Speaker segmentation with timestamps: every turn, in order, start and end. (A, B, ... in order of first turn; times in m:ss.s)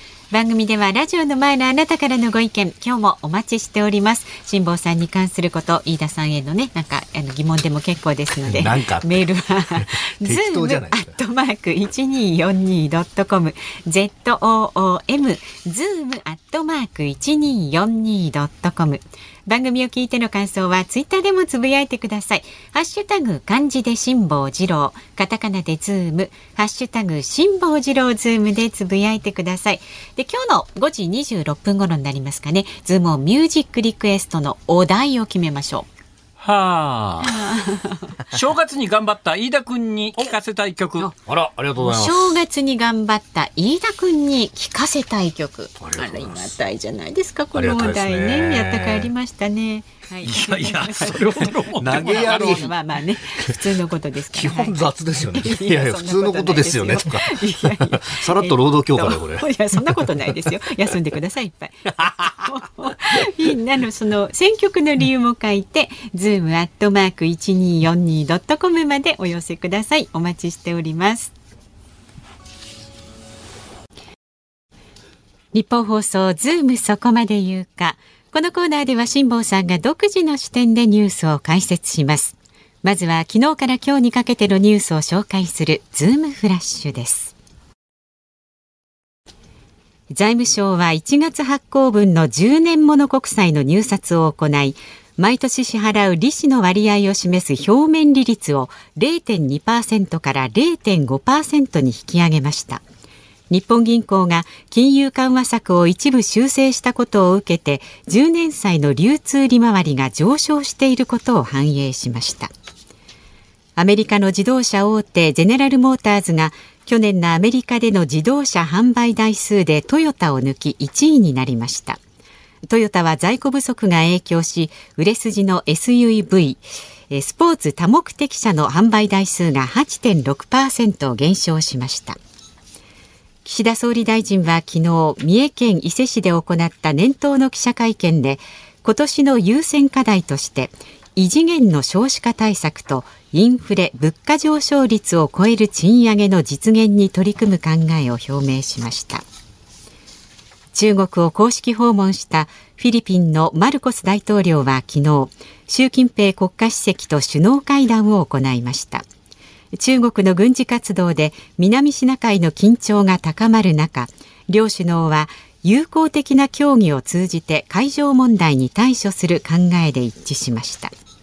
0:00.3-0:35.9 A
0:08.5-0:11.2 B
0:36.4-0:37.6 C
0:37.2-0:38.2 A
0:38.3-0:41.1 C
0:41.2-0:42.4 B
0:41.8-1:11.3 A
0:45.8-0:46.6 B
0:47.6-0:49.1 B
0:50.2-0:52.7 C
0:51.8-0:52.7 B
0:54.3-1:00.1 B
1:15.5-1:27.4 A
1:30.1-1:42.8 A
1:43.5-1:52.5 A
1:53.8-2:02.0 A
2:02.6-2:12.2 A
2:13.4-2:29.2 A
2:30.8-2:39.1 A
2:39.7-2:50.9 A